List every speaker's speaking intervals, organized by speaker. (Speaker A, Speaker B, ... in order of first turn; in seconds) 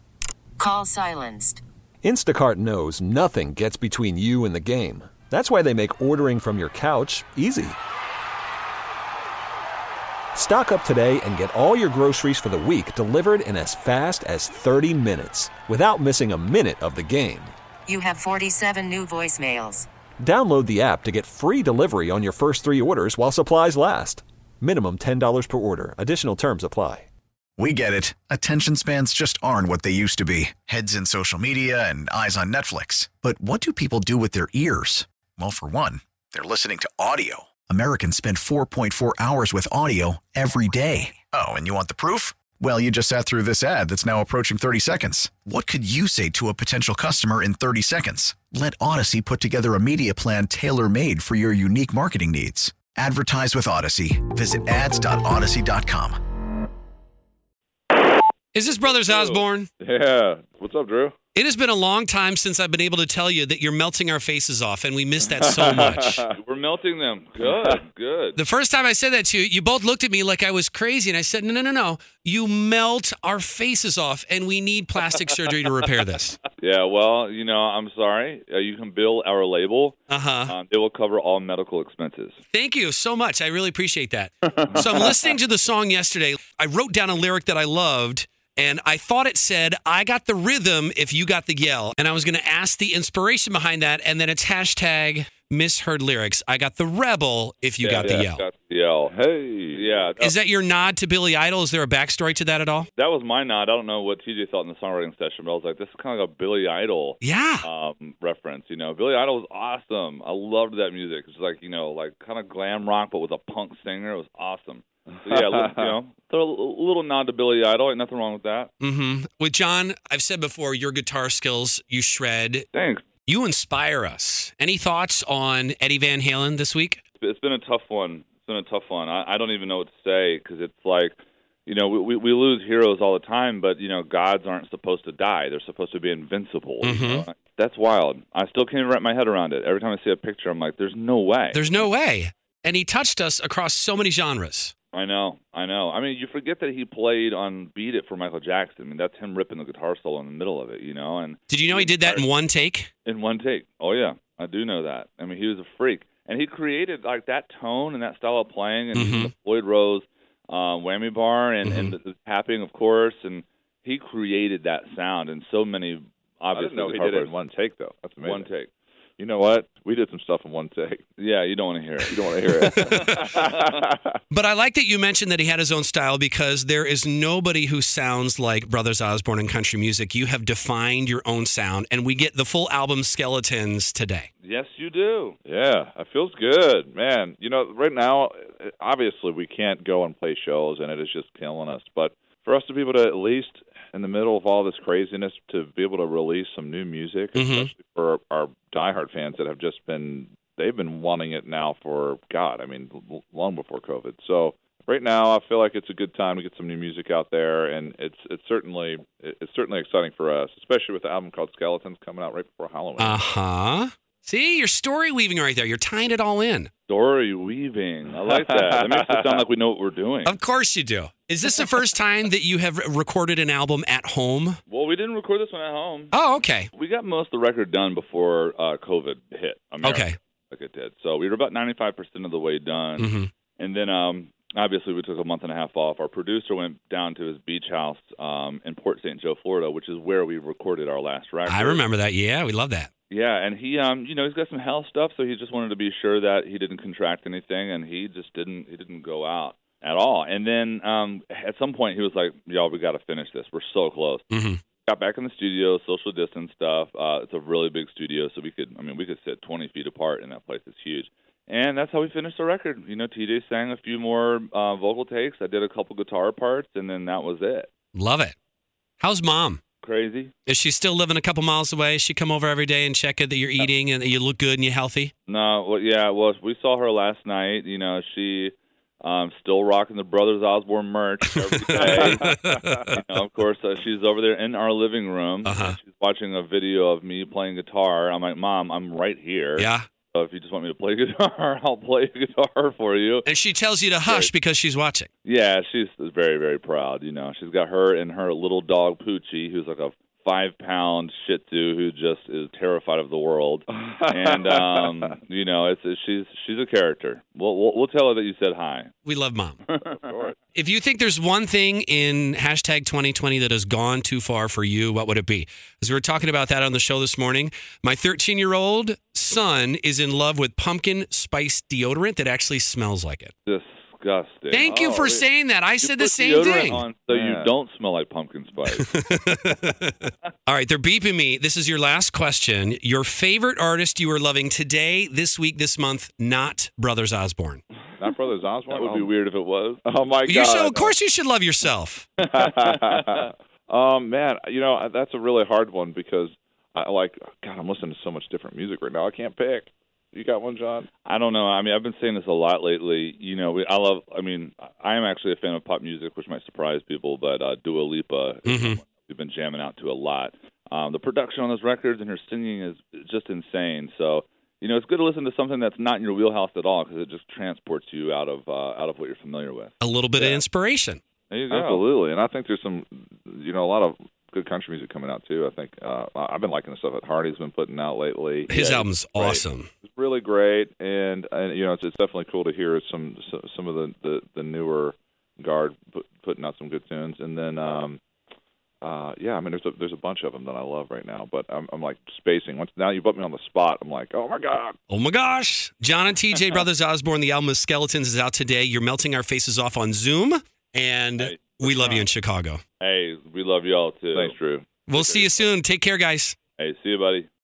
Speaker A: 0.6-1.6, 17.9-19.9
Speaker B: 2.0-7.8, 10.3-17.5, 20.2-27.1
Speaker C: 27.6-56.2
Speaker D: 58.5-59.7, 61.3-66.2, 68.3-76.4, 80.1-80.5, 82.5-98.4, 100.2-102.9, 107.2-107.7, 118.8-122.6, 123.2-127.0, 136.8-137.3, 141.5-144.7, 151.5-152.9, 158.9-159.3, 161.7-161.9, 172.6-173.2, 174.3-184.3, 197.3-197.7, 213.0-216.7, 220.2-224.6, 226.1-226.7, 229.8-230.2, 233.0-233.3, 241.4-242.9, 254.3-254.6, 267.9-268.3, 269.0-269.6, 270.5-275.1, 281.3-283.0, 285.4-285.8, 289.6-289.9, 293.2-295.1, 309.0-309.6, 310.5-323.3, 324.5-326.9, 328.7-337.6, 340.2-342.1, 358.4-358.8, 369.8-371.0, 378.5-379.7, 394.9-402.6, 404.9-406.4
Speaker E: 58.8-59.4, 66.3-68.4, 76.6-82.4, 84.5-85.1, 97.8-99.1, 99.7-100.3, 103.0-118.7, 122.7-123.0, 127.2-141.8, 144.9-152.2, 153.0-167.3, 168.2-168.7, 171.2-173.7, 184.4-185.4, 216.9-220.3, 224.7-226.1, 226.7-241.8, 243.1-254.2, 254.9-267.7, 269.8-270.3, 275.3-282.2, 282.9-293.2, 294.0-294.3, 295.2-308.9, 309.7-310.1, 323.4-325.2, 325.8-328.9, 338.7-339.8, 342.3-343.3, 351.0-370.4, 371.3-371.8, 401.2-402.1, 402.8-404.4, 404.9-405.5, 406.6-407.3
Speaker F: 59.8-61.1, 65.3-66.4, 67.4-67.8, 99.0-100.1, 115.4-115.9, 166.5-168.5, 169.2-171.0, 172.1-174.2, 185.4-213.2, 218.3-219.4, 281.7-282.8, 303.7-305.2, 310.0-310.3, 327.1-327.5, 338.0-339.1, 339.8-340.9, 342.2-350.9, 371.5-388.0, 388.8-394.8, 404.1-404.9